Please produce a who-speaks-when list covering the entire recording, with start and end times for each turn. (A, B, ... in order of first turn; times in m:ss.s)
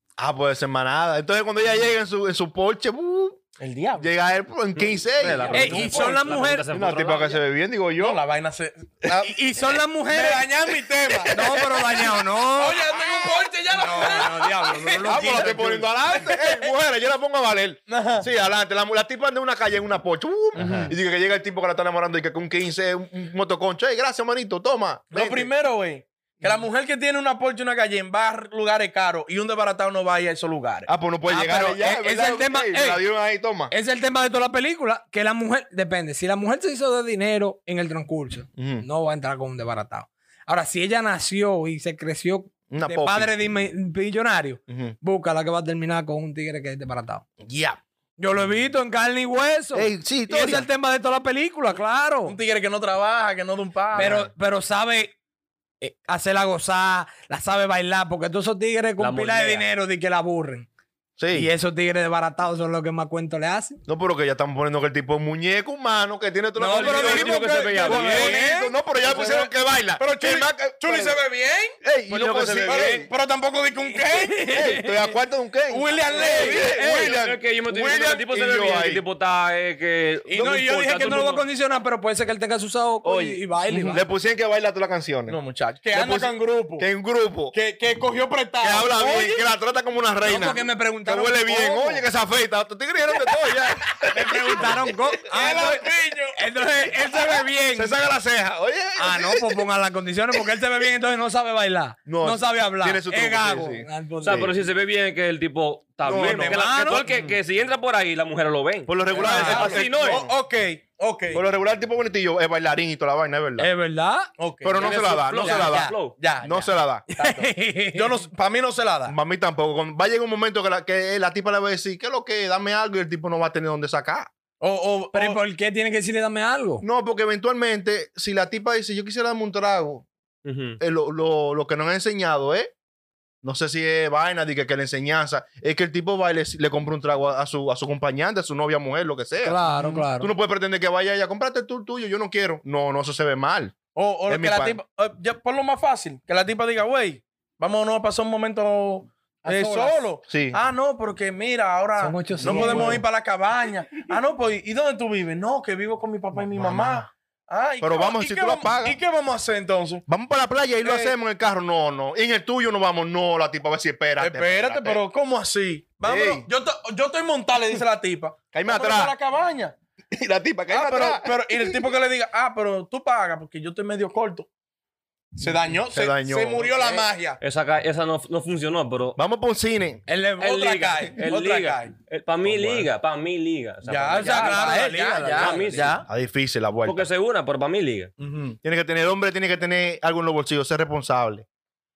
0:00.2-0:03.4 A
0:03.6-0:04.1 B
0:04.0-0:05.9 A
0:04.8-0:07.4 C
0:05.5-0:06.2 B
0:05.5-0:06.7 D
0:06.7-0:08.2 A
0:08.0-0:16.7 B
0:09.2-0:10.5 D
0:11.3-0:16.3 D
0:15.0-0:25.5 A
0:17.9-0:18.3 B
0:20.6-0:20.9 C
0:25.1-0:30.9 B
0:30.8-0:33.7 A
0:31.2-0:33.0 D
0:33.7-0:47.2 D
0:38.6-0:38.8 A
0:42.7-0:43.4 A
0:44.7-0:45.0 A
0:47.4-0:47.8 A
0:48.2-0:52.4 D
0:49.7-0:50.7 A
0:52.2-0:54.1 B
0:53.9-0:55.1 D
0:54.0-0:54.3 A
0:55.8-1:00.7 D
0:59.0-0:59.7 C
1:01.2-1:01.5 A
1:01.3-1:03.8 D
1:03.8-1:11.2 A
1:06.6-1:09.4 D
1:06.7-1:08.5 C
1:10.0-1:11.7 B
1:11.8-1:13.1 A
1:12.1-1:13.0 C
1:12.6-1:14.7 B
1:14.1-1:15.1 D
1:14.5-1:19.0 A
1:15.7-1:16.9 B
1:16.1-1:20.5 C
1:20.3-1:24.0 D
1:20.3-1:21.3 A
1:20.4-1:21.4 B
1:23.0-1:25.4 A
1:25.3-1:26.9 B
1:25.9-1:27.5 A
1:27.5-1:29.4 B
1:28.6-1:35.0 A
1:30.2-1:32.1 D
1:34.1-1:38.0 D
1:35.2-1:36.4 B
1:37.7-1:39.6 A
1:39.0-1:44.5 D
1:42.0-1:44.5 A
1:44.2-1:50.3 C
1:46.0-1:46.6 A
1:46.1-1:47.1 D
1:48.8-1:50.2 A
1:49.1-1:49.9 D
1:49.1-1:51.4 B
1:51.3-1:53.7 A
1:53.6-1:54.3 D
1:54.4-1:59.1 B
1:54.6-1:57.0 A
1:54.8-1:56.2 C
1:57.1-1:58.2 D
1:59.0-2:04.3 A
2:04.6-2:05.4 B
2:05.1-2:06.8 D
2:06.8-2:10.0 A
2:10.4-2:10.8 C
2:10.8-2:12.7 A
2:13.4-2:23.7 A
2:19.4-2:20.3 D
2:23.9-2:40.0 B
2:24.3-2:24.8 A
2:29.4-2:30.1 D
2:30.3-2:30.6 A
2:32.0-2:33.0 D
2:32.4-2:33.0 A
2:36.3-2:37.1 A
2:37.8-2:39.0 A
2:40.1-2:45.1 A
2:40.8-2:41.1 B
2:44.2-2:49.7 B
2:46.0-2:46.5 A
2:48.5-2:49.1 A
2:50.1-2:51.9 A
2:50.7-2:54.5 B
2:55.4-2:57.4 B
2:55.8-2:56.8 A
2:56.8-2:59.2 C
2:59.2-3:00.0 A
3:00.1-3:00.8 D
3:00.4-3:01.9 B
3:00.5-3:04.8 C
3:02.4-3:02.9 A
3:03.8-3:06.1 B
3:04.1-3:05.9 D
3:05.4-3:06.0 C
3:06.0-3:07.1 A
3:06.8-3:08.1 C
3:08.2-3:08.6 B
3:08.6-3:11.4 A